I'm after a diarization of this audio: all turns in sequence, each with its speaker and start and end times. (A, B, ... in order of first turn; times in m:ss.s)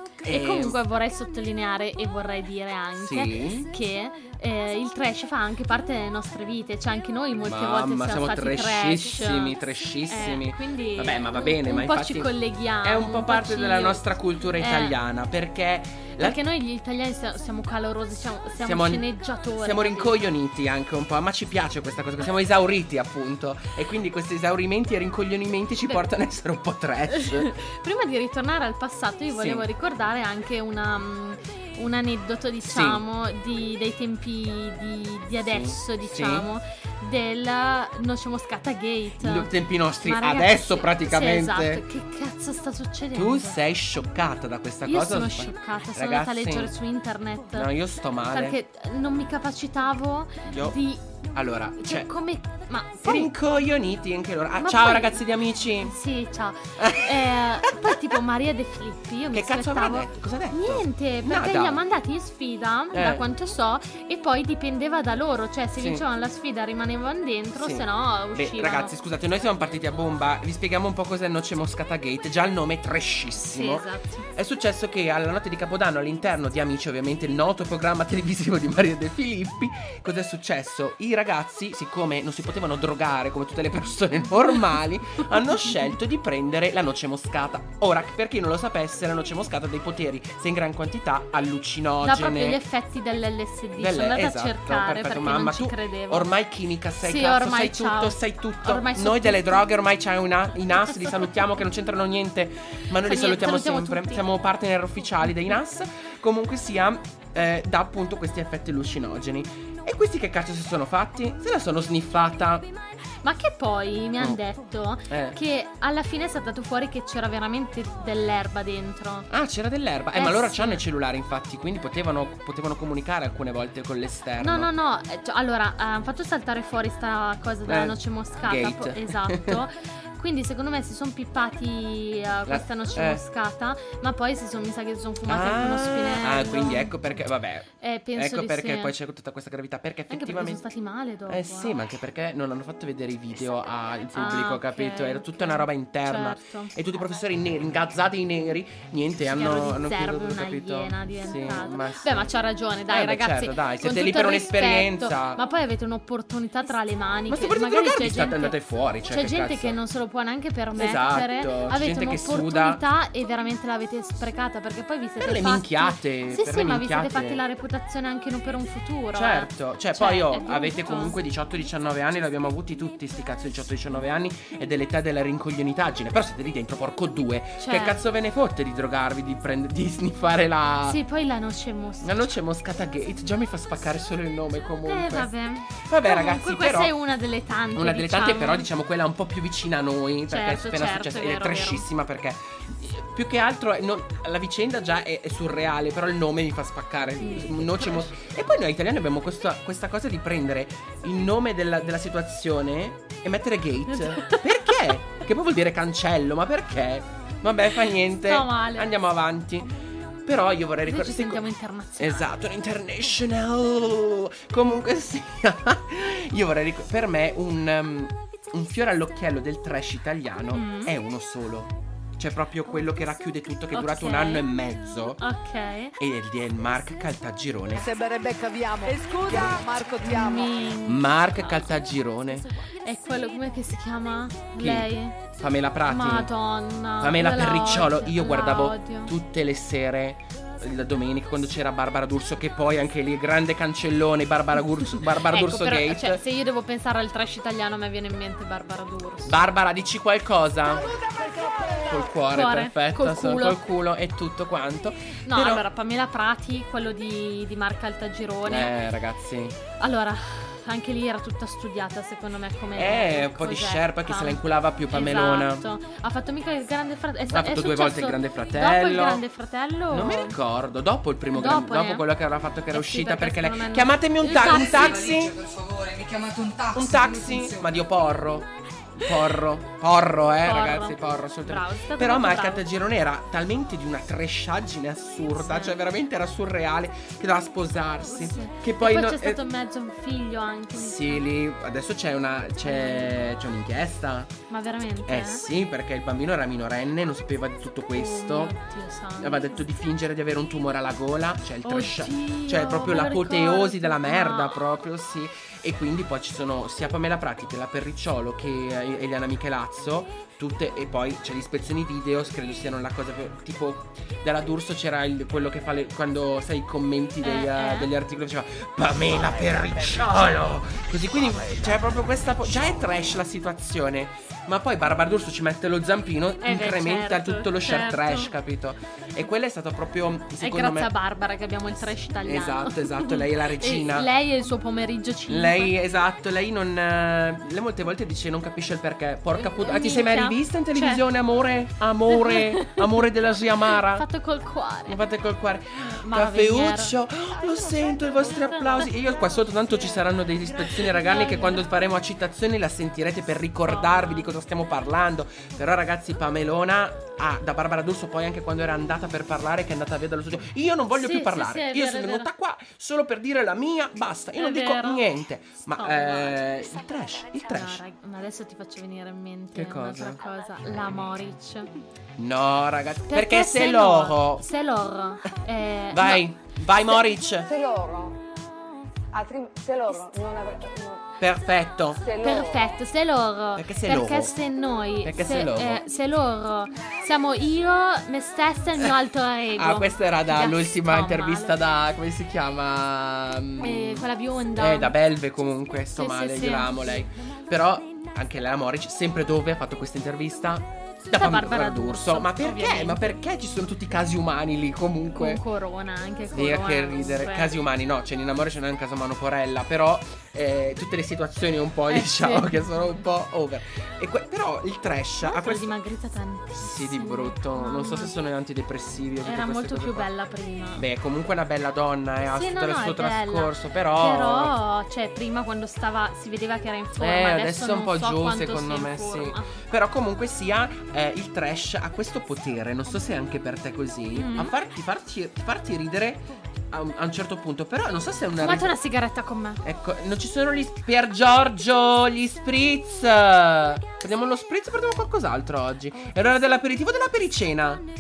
0:00.2-0:09.6 A
0:00.2-0:00.8 B
0:03.0-0:03.7 B
0:07.4-0:16.4 B
0:10.1-0:14.1 A
0:14.6-0:15.0 A
0:16.2-0:20.2 A
0:18.6-0:19.1 B
0:19.6-0:27.5 B
0:27.1-0:39.5 A
0:29.3-0:29.6 B
0:32.6-0:33.0 B
0:35.4-0:36.5 B
0:39.2-0:41.8 B
0:40.0-0:43.6 A
0:43.1-0:46.7 B
0:44.9-0:47.7 A
0:47.5-0:48.6 B
0:48.3-0:51.0 A
0:50.4-0:50.8 B
0:51.3-0:52.1 B
0:51.8-0:53.3 A
0:53.0-0:56.0 B
0:54.6-0:55.2 A
0:55.8-1:08.9 A
0:56.8-0:58.1 B
0:59.3-1:01.8 B
1:02.9-1:03.2 B
1:05.8-1:06.0 B
1:07.6-1:32.6 B
1:13.4-1:14.3 A
1:32.0-1:36.3 A
1:33.8-1:52.7 B
1:37.0-1:39.5 A
1:43.0-1:44.2 A
1:53.2-1:59.3 A
1:55.1-1:55.4 B
1:59.3-2:04.7 B
2:00.2-2:00.8 A
2:04.4-2:16.9 A
2:07.7-2:09.6 B
2:12.5-2:13.2 B
2:15.3-2:20.6 B
2:17.8-2:18.9 A
2:20.1-2:21.8 A
2:21.3-2:32.3 B
2:24.1-2:26.7 A
2:29.2-2:38.6 A
2:32.9-2:35.4 B
2:37.3-2:39.8 B
2:39.1-2:51.2 A
2:40.8-2:42.8 B
2:45.2-2:47.4 B
2:49.1-3:01.0 B
2:57.6-2:58.0 A
3:00.8-3:02.3 A
3:02.0-3:07.0 B
3:04.9-3:08.7 A
3:07.7-3:29.7 B
3:10.3-3:11.8 A
3:17.2-3:18.2 A
3:23.9-3:24.7 A
3:28.2-3:28.9 A
3:30.2-3:31.5 B
3:30.9-3:32.3 A
3:32.0-3:45.2 B
3:40.5-3:40.9 A
3:43.7-3:44.4 A
3:45.2-3:46.0 A
3:46.0-3:47.9 B
3:47.8-3:50.5 C
3:49.2-3:49.7 B
3:50.0-3:51.6 A
3:50.8-3:52.5 B
3:52.8-3:55.2 A
3:54.6-3:56.3 B
3:55.9-3:59.1 A
3:57.0-4:06.2 B
4:04.8-4:09.4 A
4:09.2-4:11.0 B
4:11.1-4:11.8 C
4:11.8-4:15.6 B
4:12.2-4:13.6 A
4:15.2-4:18.8 A
4:18.5-4:19.6 B
4:19.8-4:30.4 A
4:22.8-4:25.6 B
4:27.3-4:29.2 B
4:29.9-4:35.4 B
4:31.3-4:32.1 A
4:32.7-4:35.1 A
4:34.2-4:37.7 D
4:36.7-4:49.4 B
4:40.4-4:42.6 A
4:45.4-4:45.8 A
4:48.1-4:51.2 A
4:50.7-4:54.3 B
4:52.6-4:53.3 A
4:54.5-4:55.5 A
4:55.1-4:58.5 B
4:57.9-4:59.6 A
4:59.2-5:30.9 B
5:01.6-5:04.6 A
5:17.2-5:17.9 A
5:26.4-5:28.3 A
5:30.4-5:35.7 A
5:32.2-5:34.1 B
5:35.3-5:44.1 B
5:39.4-5:41.0 A
5:42.1-5:42.9 A
5:43.7-5:45.0 A
5:44.9-6:07.8 B
5:46.0-5:47.0 A
5:48.3-5:48.8 A
5:50.6-5:51.6 A
5:53.6-5:54.3 A
6:00.9-6:02.3 A
6:04.4-6:05.1 A
6:05.7-6:06.4 A
6:07.4-6:11.7 A
6:09.5-6:10.2 B
6:12.2-6:14.4 B
6:13.1-6:16.3 A
6:15.9-6:17.5 B
6:17.4-6:18.2 E
6:19.1-6:21.1 E
6:21.2-6:22.0 B
6:22.0-6:22.8 E
6:22.2-6:31.6 A
6:23.6-6:24.3 B
6:25.0-6:25.8 B
6:29.6-6:34.0 B
6:33.6-6:34.9 A
6:34.6-6:45.4 B
6:36.0-6:37.0 A
6:41.1-6:43.2 A
6:45.2-6:47.5 A
6:46.3-6:55.7 B
6:51.9-6:52.9 A
6:55.2-6:58.1 A
6:56.5-7:00.1 B
6:59.2-7:00.8 A
7:00.8-7:04.5 B
7:02.2-7:09.6 A
7:07.0-7:18.8 B
7:14.1-7:14.5 A
7:18.4-7:19.6 A
7:19.6-7:27.8 B